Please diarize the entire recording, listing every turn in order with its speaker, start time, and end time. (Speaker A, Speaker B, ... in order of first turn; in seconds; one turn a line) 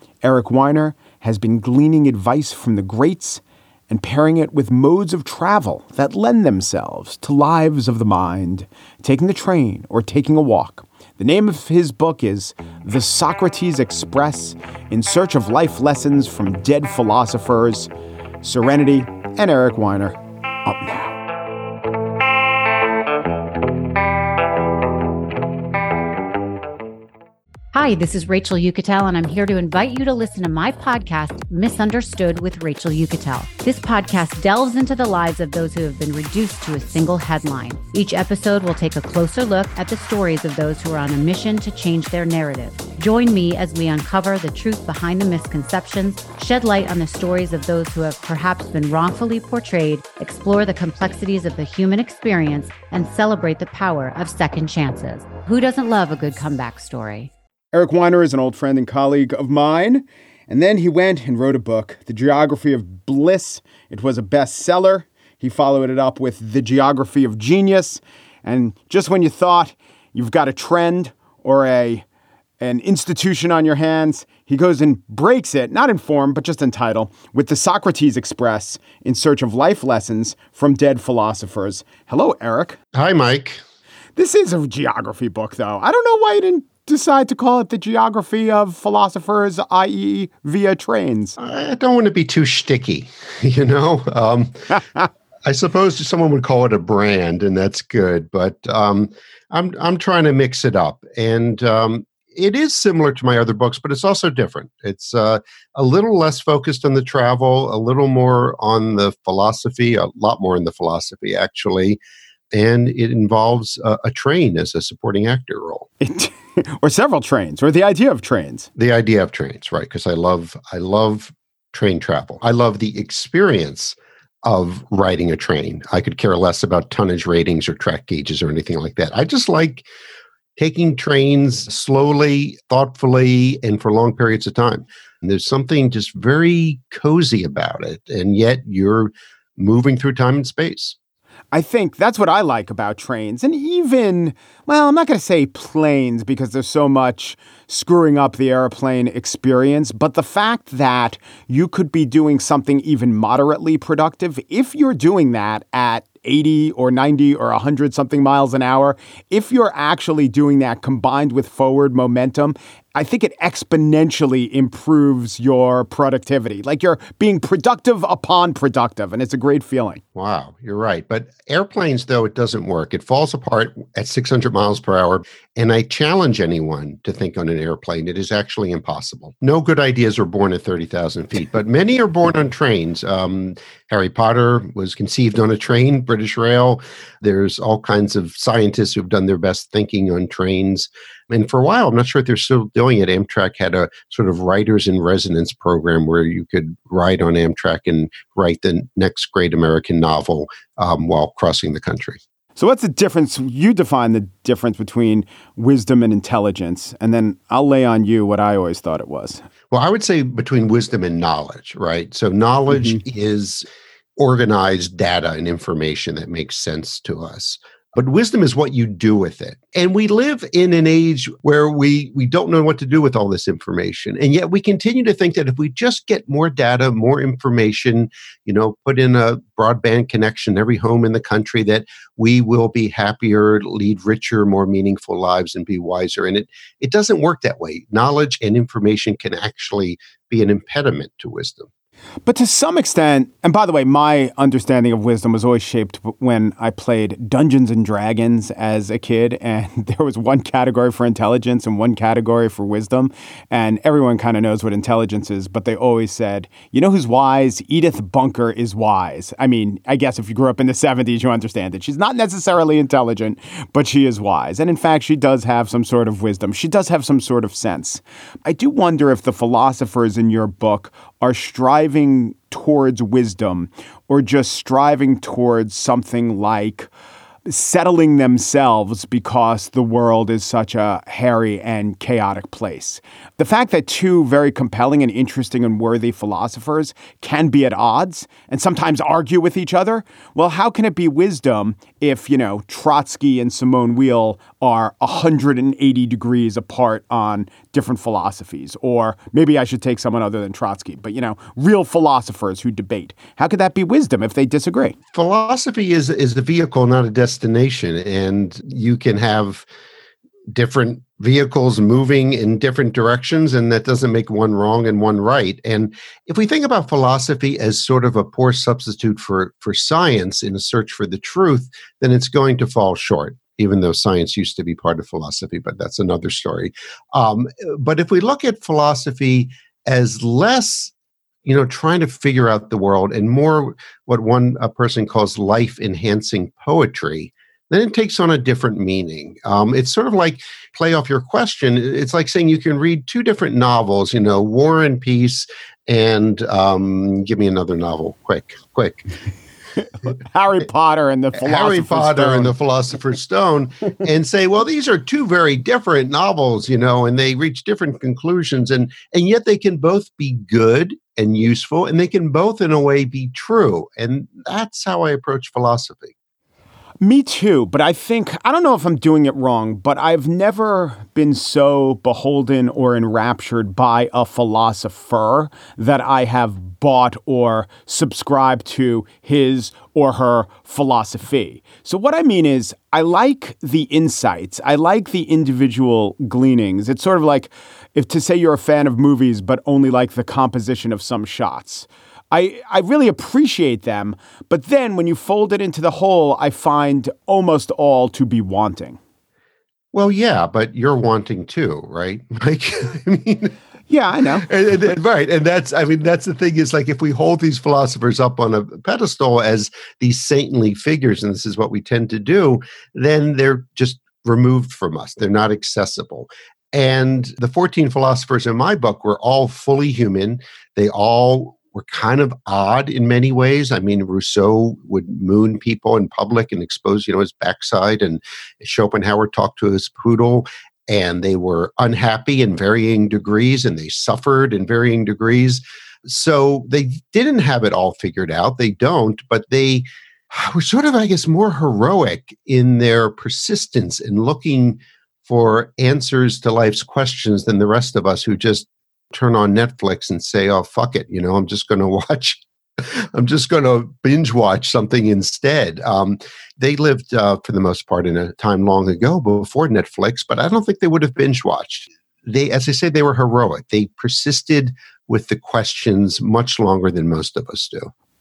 Speaker A: 0.2-17.9
Speaker A: 18.4-21.2
Speaker B: 27.7-57.3
Speaker A: 57.7-72.0
Speaker A: 72.6-82.8
Speaker C: 82.9-83.6
Speaker A: 84.2-91.4
Speaker C: 91.4-94.6
Speaker C: 95.4-112.0
Speaker C: 112.5-115.9
Speaker A: 116.0-118.7
Speaker C: 118.8-129.9
Speaker C: 130.6-140.9
Speaker A: 141.5-170.0
Speaker C: 170.1-202.2
Speaker A: 202.6-209.4
Speaker C: 209.7-213.7
Speaker C: 214.2-241.7
Speaker A: 242.2-276.9
Speaker A: 277.4-305.0
Speaker C: 305.1-309.6
Speaker C: 310.5-330.9
Speaker C: 331.4-349.0
Speaker A: 350.2-352.5
Speaker C: 351.4-366.1
Speaker A: 367.0-399.0
Speaker C: 399.9-403.5
Speaker A: 403.9-404.5
Speaker C: 404.4-467.9